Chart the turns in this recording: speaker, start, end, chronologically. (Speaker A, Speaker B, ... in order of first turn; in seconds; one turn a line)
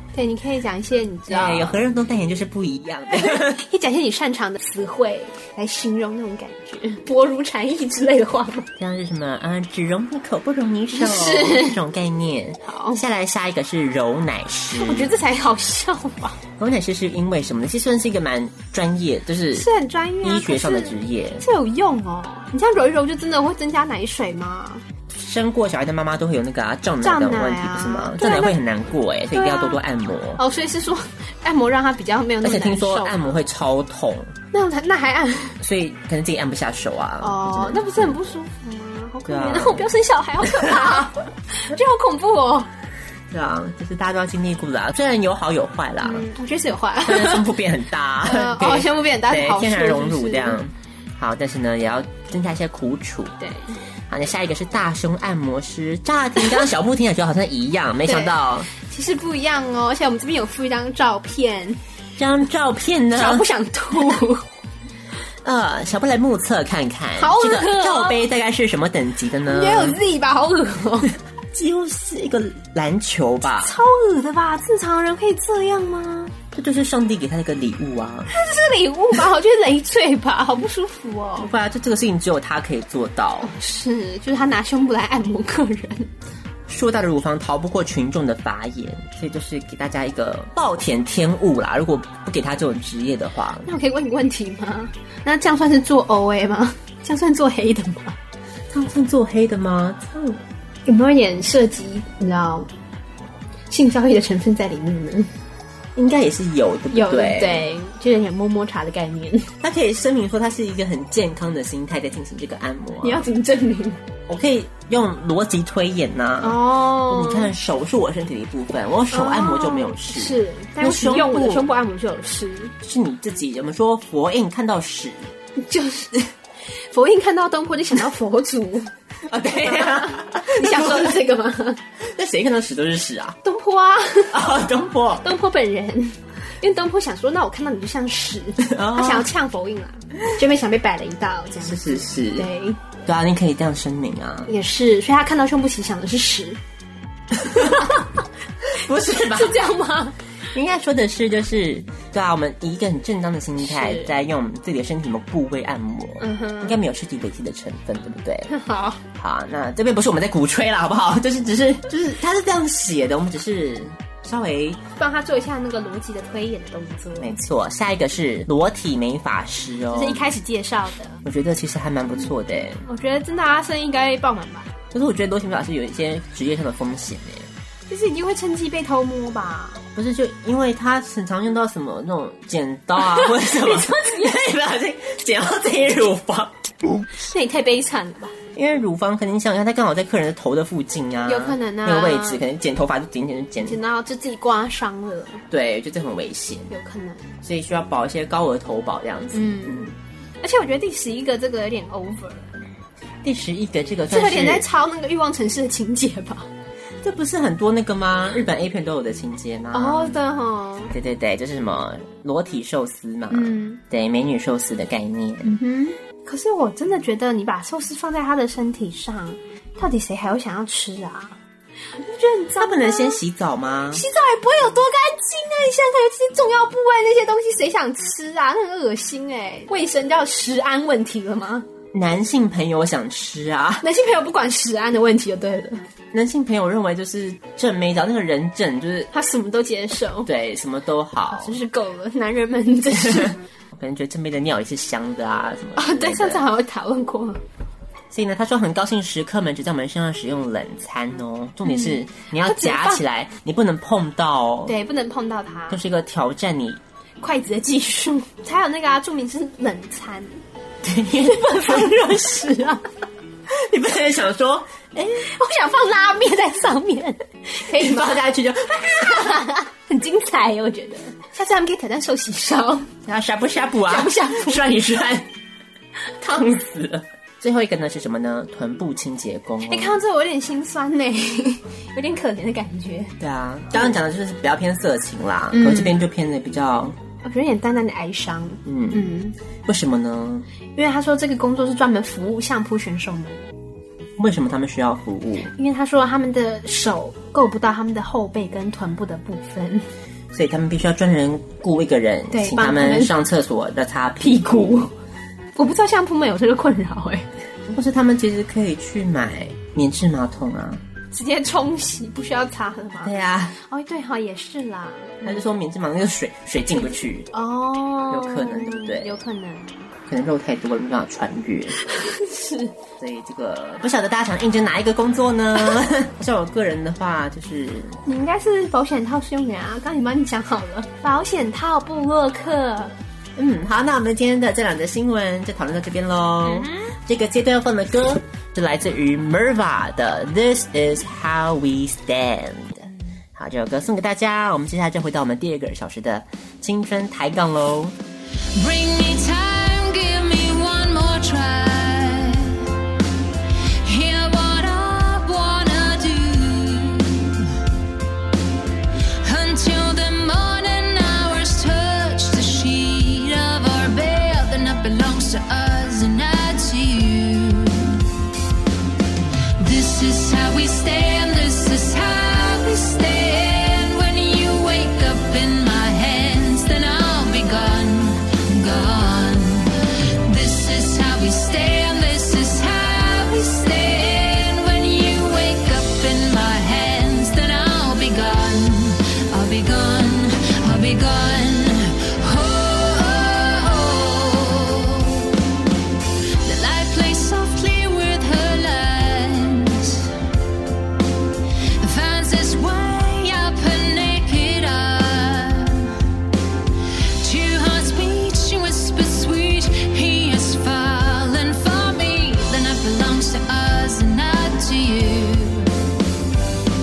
Speaker A: 0.1-1.8
Speaker B: 1.3-3.6
Speaker A: 3.1-8.7
Speaker B: 8.8-15.1
Speaker A: 10.9-11.8
Speaker A: 12.6-13.0
Speaker A: 14.7-16.4
Speaker B: 16.6-19.7
Speaker A: 19.5-24.8
Speaker B: 20.2-21.4
Speaker B: 25.1-30.4
Speaker A: 27.0-28.6
Speaker A: 29.3-29.8
Speaker A: 30.4-33.4
Speaker B: 32.4-34.3
Speaker A: 34.5-35.6
Speaker B: 35.6-38.1
Speaker A: 37.2-42.7
Speaker B: 39.3-39.9
Speaker B: 40.5-41.0
Speaker B: 43.3-46.3
Speaker A: 46.0-47.5
Speaker B: 47.0-53.3
Speaker A: 48.2-50.6
Speaker A: 53.4-53.8
Speaker B: 54.1-58.7
Speaker A: 58.0-61.8
Speaker B: 62.2-63.5
Speaker A: 63.1-64.5
Speaker B: 65.4-70.0
Speaker A: 67.2-68.2
Speaker A: 69.5-71.1
Speaker B: 71.5-73.8
Speaker A: 73.5-76.3
Speaker B: 76.5-78.3
Speaker A: 78.3-81.5
Speaker B: 81.4-83.5
Speaker A: 83.4-86.1
Speaker B: 86.7-93.7
Speaker A: 93.6-98.2
Speaker B: 98.7-100.4
Speaker A: 100.8-102.7
Speaker A: 103.7-105.3
Speaker B: 106.0-107.7
Speaker A: 106.9-109.5
Speaker B: 109.6-113.2
Speaker A: 113.0-114.0
Speaker B: 114.3-121.7
Speaker A: 116.4-117.5
Speaker A: 119.1-122.7
Speaker B: 122.8-125.3
Speaker A: 125.6-126.3
Speaker A: 126.9-128.9
Speaker B: 129.2-131.2
Speaker A: 129.7-131.8
Speaker B: 132.0-133.4
Speaker A: 133.4-134.3
Speaker B: 134.3-135.3
Speaker A: 135.2-142.8
Speaker B: 138.7-139.3
Speaker B: 141.6-142.5
Speaker B: 143.0-144.5
Speaker A: 144.5-146.6
Speaker B: 147.4-147.8
Speaker B: 148.7-149.6
Speaker A: 149.1-150.2
Speaker B: 150.5-158.5
Speaker A: 153.6-154.1
Speaker A: 156.2-156.8
Speaker A: 158.5-159.0
Speaker B: 159.2-164.8
Speaker A: 165.0-167.3
Speaker B: 167.2-170.3
Speaker A: 169.9-171.2
Speaker B: 171.2-172.8
Speaker A: 172.8-174.7
Speaker B: 174.9-177.5
Speaker A: 177.9-179.8
Speaker B: 179.9-187.0
Speaker A: 183.0-184.4
Speaker A: 187.1-188.3
Speaker B: 188.5-193.8
Speaker A: 191.2-192.4
Speaker A: 193.6-195.4
Speaker B: 195.5-196.7
Speaker A: 196.7-197.2
Speaker B: 197.4-199.9
Speaker A: 199.3-202.5
Speaker B: 203.2-204.7
Speaker A: 204.1-206.5
Speaker B: 207.0-210.2
Speaker A: 209.7-210.9
Speaker B: 210.9-215.6
Speaker A: 213.3-213.8
Speaker A: 215.4-221.4
Speaker A: 221.9-223.2
Speaker B: 222.6-224.0
Speaker A: 223.9-231.7
Speaker B: 231.9-233.8
Speaker A: 233.8-235.8
Speaker B: 236.1-239.1
Speaker A: 239.1-240.3
Speaker B: 240.2-241.6
Speaker A: 241.3-243.4
Speaker B: 243.0-246.4
Speaker A: 245.8-247.4
Speaker B: 248.1-254.8
Speaker A: 251.7-253.0
Speaker A: 254.7-255.8
Speaker B: 255.7-256.8
Speaker A: 257.2-260.4
Speaker B: 260.8-261.9
Speaker A: 261.2-262.8
Speaker B: 263.5-265.3
Speaker A: 265.2-268.2
Speaker B: 267.7-269.3
Speaker A: 268.9-272.9
Speaker B: 273.0-275.3
Speaker A: 273.9-274.7
Speaker B: 276.2-280.0
Speaker A: 279.7-283.1
Speaker B: 283.2-287.0
Speaker A: 285.5-286.0
Speaker A: 287.2-289.3
Speaker B: 288.6-289.1
Speaker B: 289.6-290.5
Speaker A: 290.8-293.4
Speaker B: 294.2-295.5
Speaker A: 295.5-299.9
Speaker B: 300.3-304.8
Speaker A: 302.3-303.1
Speaker A: 304.2-304.9
Speaker A: 305.6-307.3
Speaker B: 307.7-310.8
Speaker A: 311.1-315.3
Speaker B: 313.0-313.6
Speaker B: 315.2-317.3
Speaker A: 317.3-319.8
Speaker B: 318.1-319.2
Speaker B: 320.1-321.8
Speaker A: 321.8-322.7
Speaker B: 323.0-328.0
Speaker A: 328.0-332.9
Speaker B: 333.4-348.0
Speaker A: 336.5-336.9
Speaker C: 348.5-352.7
Speaker C: 353.8-357.5
Speaker C: 359.2-368.0
Speaker C: 369.6-395.4
Speaker C: 396.4-400.1
Speaker C: 401.8-405.9
Speaker C: 407.2-415.8